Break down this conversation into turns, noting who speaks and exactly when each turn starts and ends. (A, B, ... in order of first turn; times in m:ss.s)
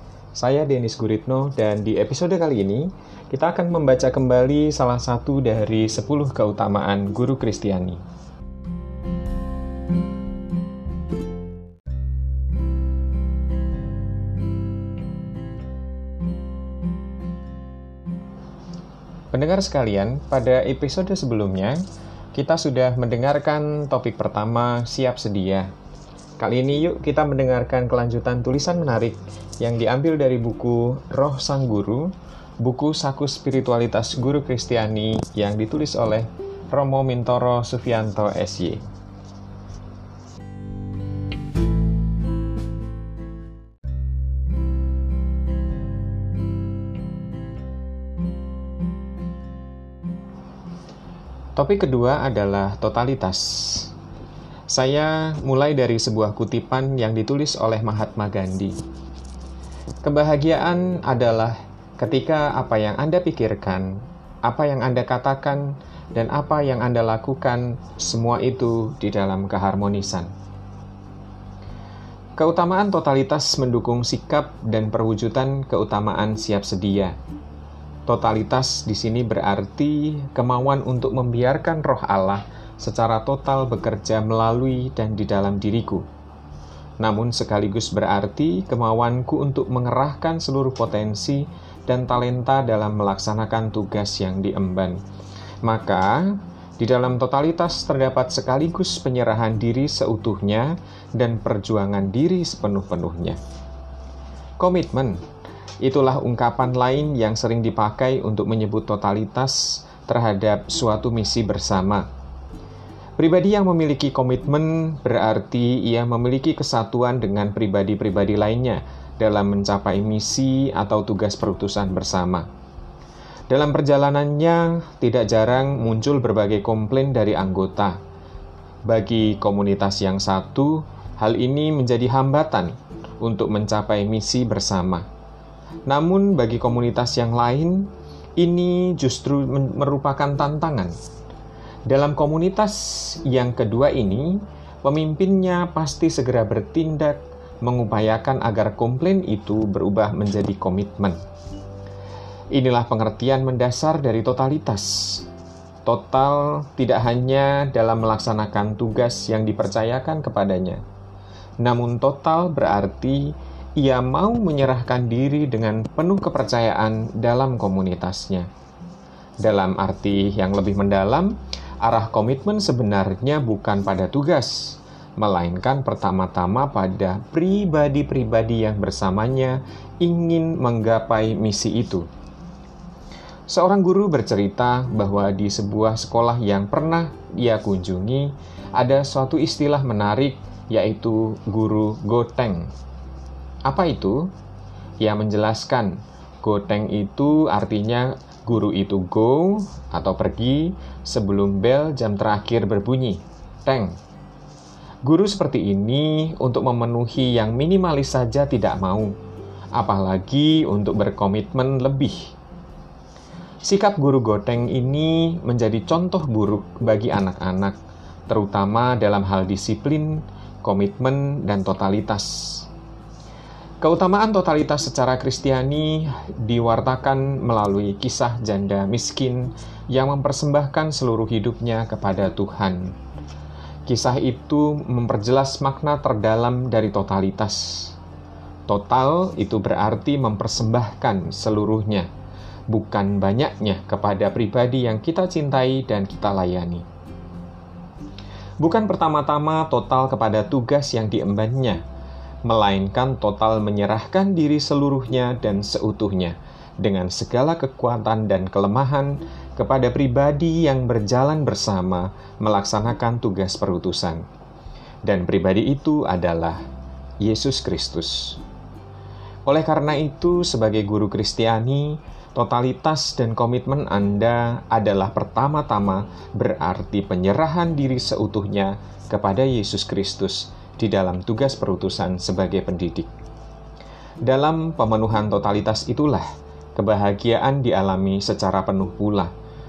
0:00.4-0:08.0 A
0:19.3-0:21.8 A
0:22.3-0:25.7 A
0:26.4-0:38.8 A
0:51.6-0:53.9 A
0:54.7-0:58.8 A
1:00.0-1:10.3 A
1:12.4-1:17.1 A
1:18.0-1:26.0 A
1:27.0-1:35.0 A
1:35.6-1:43.4 A
1:44.6-1:45.2 A
1:45.8-1:52.0 A
1:53.2-2:02.5 A
2:03.5-2:08.0 A
2:08.9-2:15.0 A
2:15.8-2:21.0 A
2:21.9-2:31.2 A
2:32.5-2:35.2 A
2:35.8-2:40.8 A
2:41.6-2:48.5 A
2:49.4-3:02.1 A
3:03.5-3:12.7 A
3:13.6-3:14.3 A
3:15.0-3:24.0 A
3:25.0-3:29.1 A
3:29.7-3:32.3 A
3:33.6-3:37.7 A
3:38.3-3:42.7 A
3:43.8-3:52.9 A
3:53.9-3:57.9 A
3:58.7-4:02.1 A
4:02.7-4:06.8 A
4:08.6-4:11.8 A
4:12.4-4:24.2 A
4:25.0-4:26.6 A
4:27.2-4:28.4 A
4:29.4-4:43.1 A
4:44.2-4:49.3 A